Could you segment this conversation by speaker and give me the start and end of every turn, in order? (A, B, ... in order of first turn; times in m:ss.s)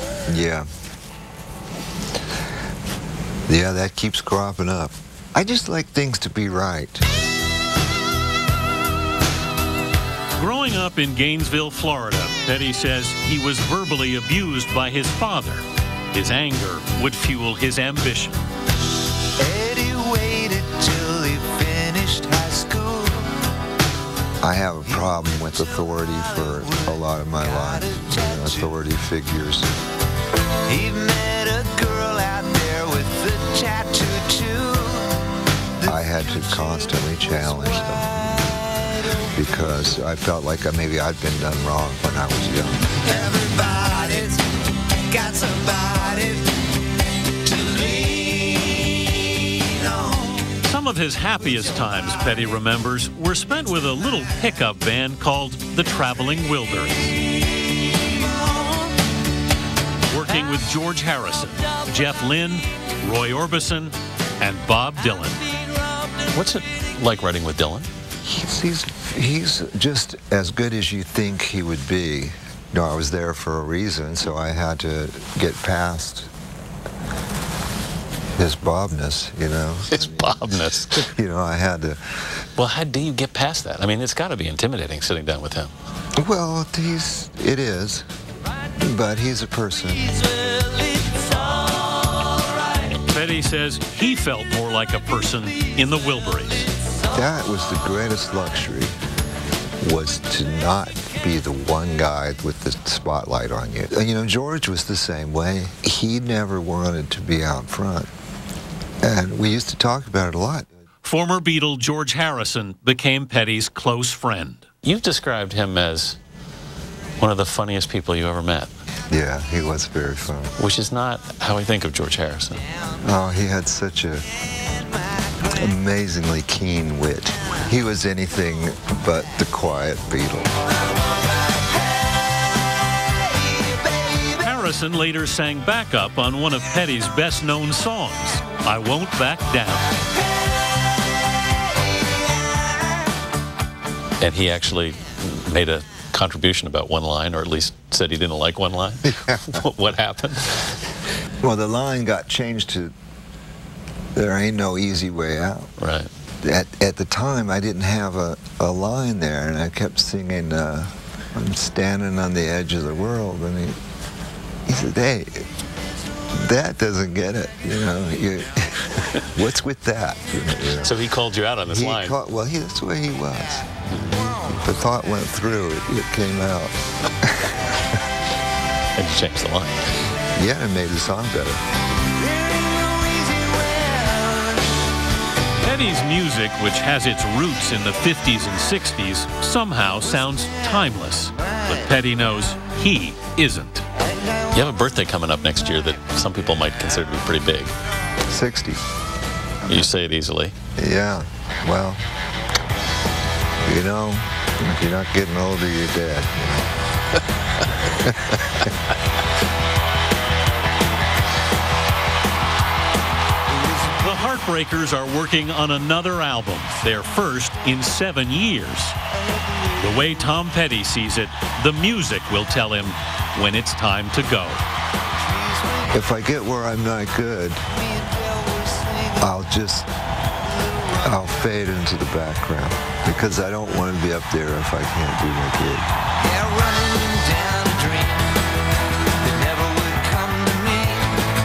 0:00.3-0:00.6 A
0:03.5-0:07.0 A
0:10.4-0:18.4 B
0:19.4-0:23.3 C
0:24.4-0:29.7 A
0:27.8-0:28.5 C
0:30.7-0:35.1 C
0:35.8-0:38.5 A
0:39.3-0:43.1 A
0:43.1-0:44.4 C
0:45.1-0:46.5 C
0:47.4-0:50.4 C
0:50.6-0:57.2 B
1:00.1-1:05.4 B
1:06.3-1:07.9 D
1:08.2-1:16.3 A
1:18.4-1:20.4 A
1:19.9-1:21.1 D
1:21.1-1:22.2 A
1:22.6-1:25.7 D
1:26.2-1:28.0 A
1:28.8-1:30.1 A
1:33.1-1:36.7 B
1:37.1-1:38.9 A
1:39.8-1:48.1 A
1:49.0-1:50.6 A
1:51.0-1:54.6 B
1:54.8-1:56.2 D
1:57.2-1:58.7 D
1:59.1-2:00.5 A
2:00.6-2:02.6 D
2:03.0-2:04.2 A
2:05.4-2:10.5 A
2:14.4-2:19.9 B
2:24.2-2:30.7 D
2:29.1-2:29.6 A
2:31.4-2:32.9 A
2:34.1-2:35.7 A
2:35.8-2:36.1 D
2:36.4-2:43.8 A
2:44.6-2:45.5 A
2:46.3-2:51.0 A
2:50.8-2:52.2 D
2:51.6-2:53.7 A
2:54.4-2:57.8 A
2:59.0-2:59.9 D
3:00.3-3:01.6 A
3:02.3-3:04.6 C
3:05.6-3:13.8 B
3:14.5-3:17.7 D
3:18.3-3:18.8 A
3:19.6-3:20.5 D
3:20.8-3:22.0 A
3:23.6-3:26.7 A
3:27.8-3:28.7 A
3:33.9-3:39.0 B
3:39.8-3:44.6 B
3:45.4-3:45.8 C
3:45.9-3:47.6 A
3:47.9-3:49.2 C
3:49.2-3:49.9 A
3:50.6-3:51.0 C
3:51.0-3:55.9 A
3:56.2-3:58.2 C
3:59.2-4:01.1 C